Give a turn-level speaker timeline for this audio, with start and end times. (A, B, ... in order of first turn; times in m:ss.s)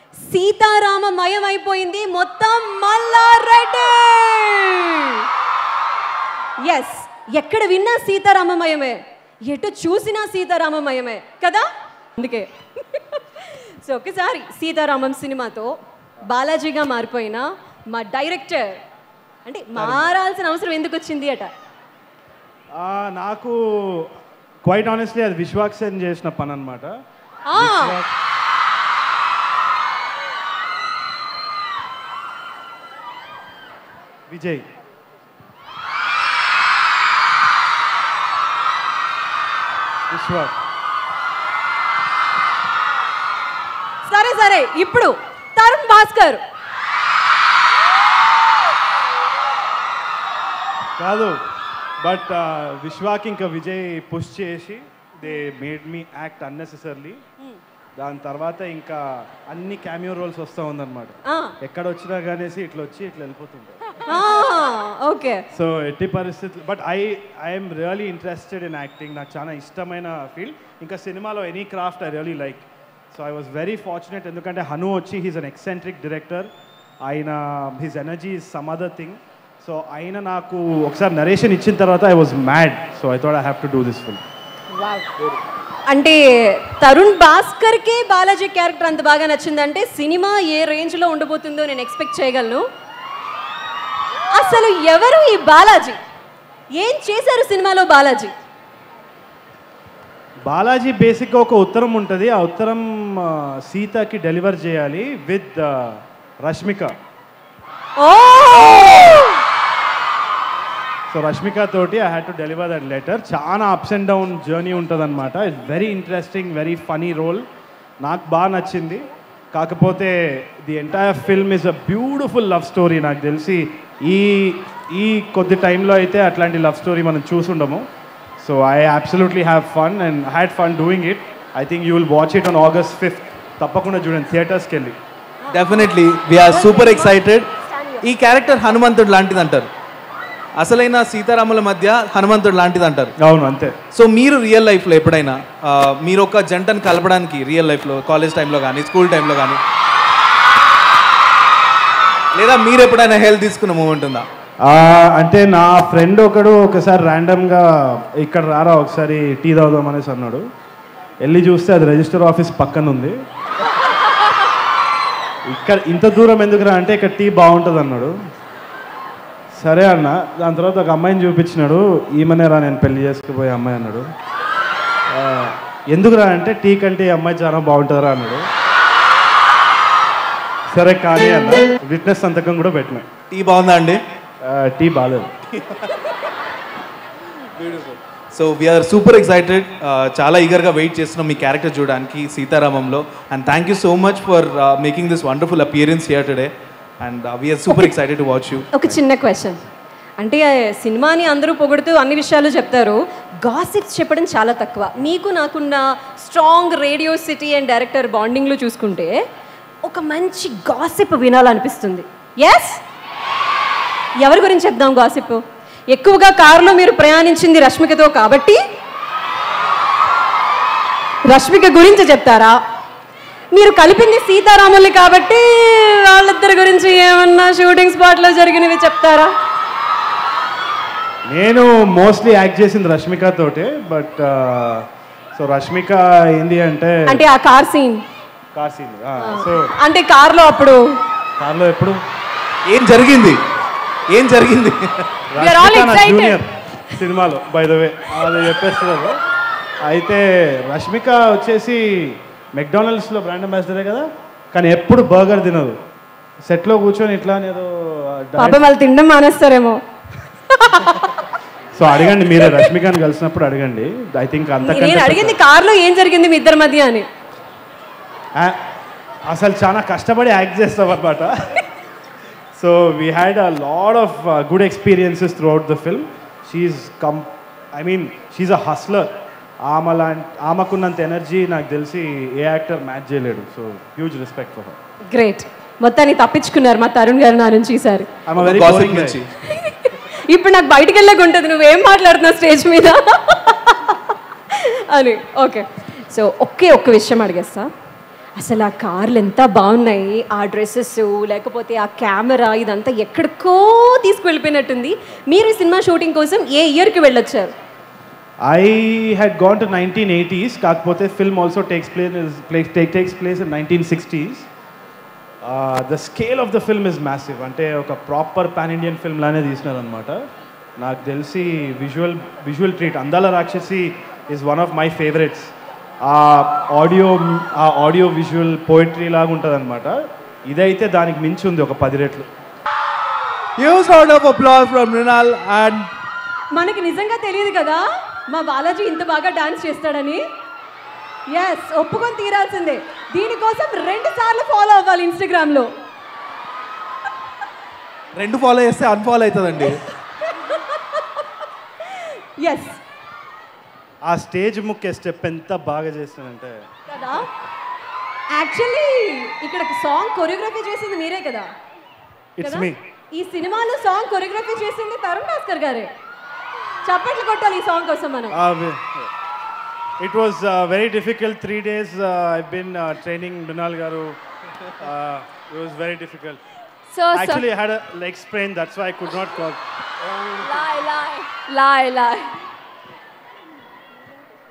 0:00.2-0:05.2 A
0:06.6-0:18.8 A
0:19.5-0:21.5 A
0:19.8-0:20.1 B
0:22.8-0:24.1 B
0:24.6-0:27.0 B
0:27.5-0:28.0 A
0:27.5-0:28.1 B
0:34.3-0:34.7 B
0:40.1-0:40.6 B
0:44.0-0:46.4 A
0:51.0-0:51.4 B
0:52.0-0:57.2 B
0:58.0-1:04.3 B
1:01.3-1:01.6 A
1:04.1-1:05.5 A
1:05.5-1:24.2 B
1:25.9-1:32.7 A
1:34.3-1:36.0 A
1:36.7-1:38.4 A
1:40.5-1:47.0 B
1:48.0-1:49.4 A
1:51.1-1:57.5 B
1:58.0-2:07.9 B
2:08.4-2:15.0 B
2:15.4-2:15.9 A
2:15.5-2:17.5 C
2:16.5-2:17.1 A
2:17.7-2:18.0 A
2:18.0-2:19.7 C
2:20.6-2:23.2 C
2:23.2-2:23.8 B
2:23.9-2:29.6 C
2:32.4-2:34.3 C
2:34.6-2:40.5 B
2:41.2-2:43.2 B
2:45.5-2:48.2 B
2:49.5-2:54.1 B
2:55.1-2:58.5 B
3:00.7-3:03.1 B
3:03.3-3:04.0 C
3:04.4-3:05.4 B
3:05.6-3:05.8 C
3:07.6-3:18.7 C
3:17.7-3:17.9 A
3:18.7-3:19.6 A
3:20.2-3:29.2 A
3:29.8-3:32.8 A
3:34.2-3:38.6 A
3:41.3-3:42.6 A
3:43.5-3:49.3 A
3:51.3-3:57.2 B
3:57.1-3:58.0 A
3:58.5-3:59.7 B
3:59.2-4:00.9 A
4:01.4-4:02.0 B
4:02.7-4:03.4 C
4:04.1-4:05.1 C
4:05.3-4:09.2 B
4:05.4-4:06.4 A
4:09.8-4:15.8 B
4:16.4-4:18.6 B
4:18.4-4:19.8 A
4:20.5-4:21.2 A
4:21.8-4:25.4 B
4:22.3-4:22.7 A
4:24.6-4:27.1 A
4:28.4-4:28.7 B
4:29.3-4:31.6 B
4:32.5-4:44.8 B
4:45.1-4:48.1 A
4:48.3-4:49.2 B
4:48.4-4:49.3 C
4:49.5-4:57.7 A
4:58.4-5:07.5 A
5:08.4-5:14.5 B
5:15.4-5:20.3 B
5:20.8-5:32.3 B
5:33.6-5:35.9 C
5:36.5-5:40.2 A
5:41.3-5:45.7 A
5:48.2-5:49.8 C
5:50.3-5:51.1 A
5:51.9-5:52.8 A
5:54.1-5:56.7 B
5:56.9-5:57.3 A
5:58.3-6:01.5 A
6:02.4-6:02.8 B
6:02.4-6:05.9 A
6:06.8-6:08.4 A
6:08.3-6:09.1 B
6:10.0-6:14.2 B
6:14.8-6:16.4 B
6:16.9-6:17.4 D
6:17.1-6:19.6 B
6:20.1-6:22.4 D